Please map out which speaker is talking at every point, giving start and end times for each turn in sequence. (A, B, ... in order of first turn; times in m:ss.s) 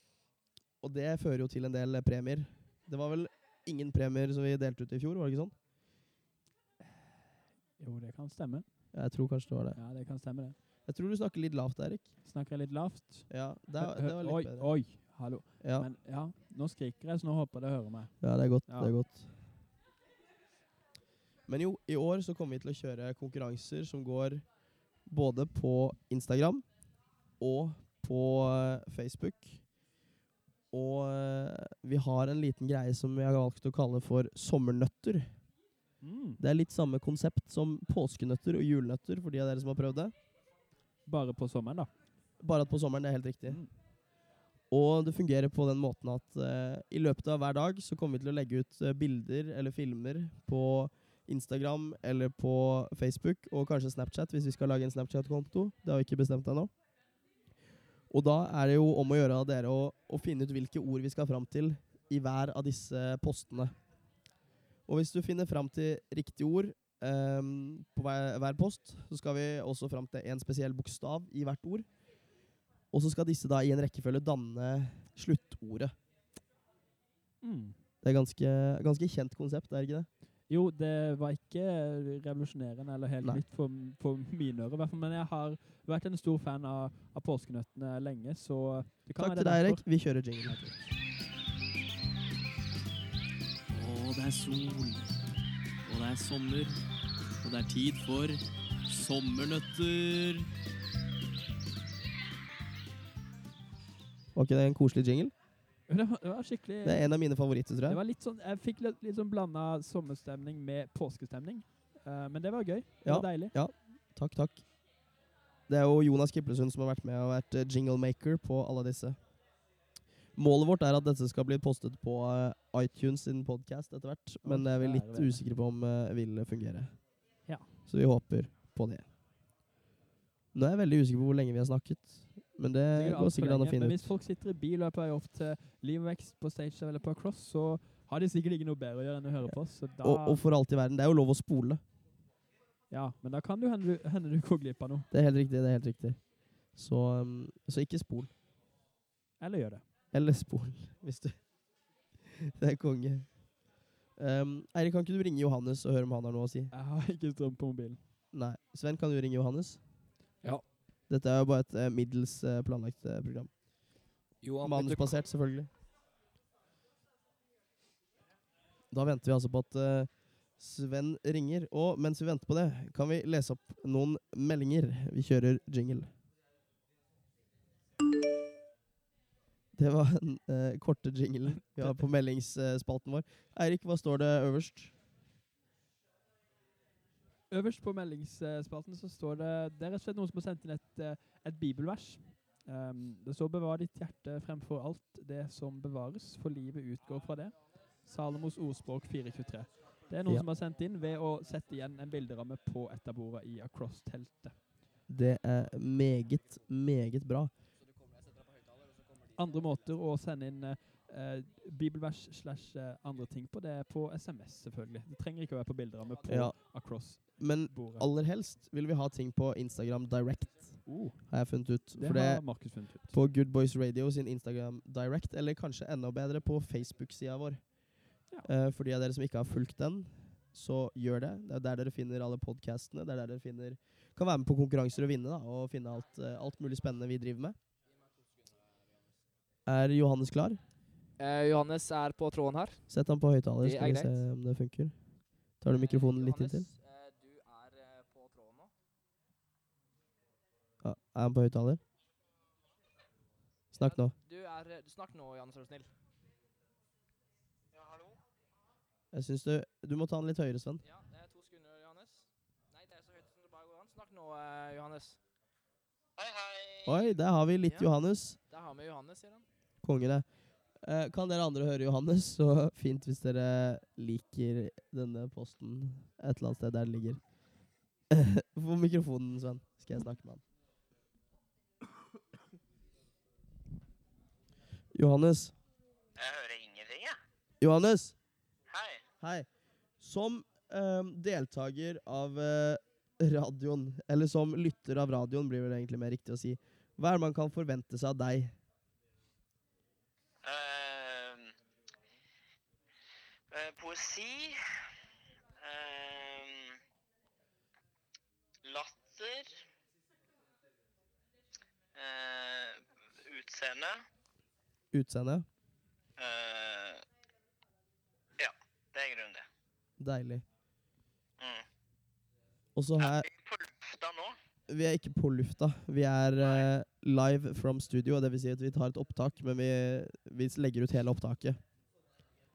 0:00.8-0:05.5 A
0:07.8-0:08.7 B
0:08.9-0:09.8 A
0:09.8-0:10.6 B
0:10.9-0:12.1 A
0:12.2-0:18.1 B
0:13.3-0:14.7 A
0:15.6-0:15.9 A
0:18.2-0:19.3 A
0:18.7-0:18.9 B
0:21.5-0:24.4 A
0:25.1-0:26.6 A
0:27.4-0:29.6 A
0:30.7-0:35.3 A
0:36.0-0:36.4 B
0:36.4-0:40.1 A
0:41.1-0:41.9 B
0:42.4-0:43.6 A
0:44.7-0:56.7 A
0:58.1-1:03.7 A
1:04.9-1:11.9 A
1:12.9-1:16.0 A
1:17.4-1:17.8 B
1:18.0-1:20.1 A
1:20.5-1:29.8 B
1:29.2-1:30.6 A
1:33.7-1:35.1 C
1:35.9-1:36.8 C
1:37.4-1:40.5 C
1:44.4-1:45.3 A
1:45.9-1:47.0 B
1:46.8-1:48.0 A
1:47.9-1:53.5 B
1:53.0-1:54.6 A
1:55.7-1:59.2 A
2:00.4-2:07.0 A
2:04.4-2:05.4 B
2:07.9-2:09.0 A
2:10.5-2:14.1 A
2:12.9-2:20.4 B
2:20.0-2:21.8 A
2:22.9-2:25.1 B
2:25.1-2:26.2 A
2:26.8-2:28.3 A
2:29.4-2:29.8 B
2:30.1-2:31.4 A
2:32.3-2:33.3 A
2:34.2-2:36.7 A
2:36.7-2:38.0 B
2:38.3-2:39.8 A
2:41.1-2:43.5 A
2:44.4-2:45.2 D
2:44.6-2:45.7 A
2:48.9-2:56.1 A
2:59.7-3:04.9 A
3:07.5-3:17.5 B
3:18.1-3:24.6 B
3:25.1-3:27.5 A
3:29.4-3:38.1 B
3:36.3-3:36.5 A
3:37.4-3:47.6 A
3:40.9-3:41.2 B
3:42.0-3:43.2 B
3:48.4-3:57.6 A
3:59.7-4:00.6 A
4:01.2-4:02.8 D
4:02.9-4:04.9 A
4:03.6-4:04.2 D
4:05.6-4:06.7 A
4:05.7-4:08.7 D
4:10.8-4:11.8 A
4:13.7-4:14.1 A
4:13.8-4:15.9 D
4:17.7-4:18.2 E
4:19.1-4:20.8 A
4:20.8-4:25.2 D
4:26.2-4:27.1 E
4:26.9-4:28.4 A
4:27.6-4:27.9 D
4:28.5-4:29.5 D
4:29.8-4:30.3 A
4:30.8-4:37.2 A
4:38.1-4:40.4 A
4:44.9-4:45.5 A
4:46.2-4:47.2 E
4:47.6-4:48.2 A
4:48.7-4:49.0 E
4:49.2-4:49.5 A
4:50.0-4:58.5 A
5:00.4-5:01.5 E
5:03.5-5:04.6 E
5:05.6-5:06.8 E
5:08.6-5:09.6 E
5:12.0-5:14.0 E
5:14.9-5:15.5 A
5:16.2-5:17.0 E
5:18.4-5:19.4 E
5:20.0-5:20.4 A
5:21.4-5:21.6 E
5:22.8-5:23.3 A
5:23.0-5:24.4 E
5:24.7-5:31.6 A
5:26.4-5:26.7 E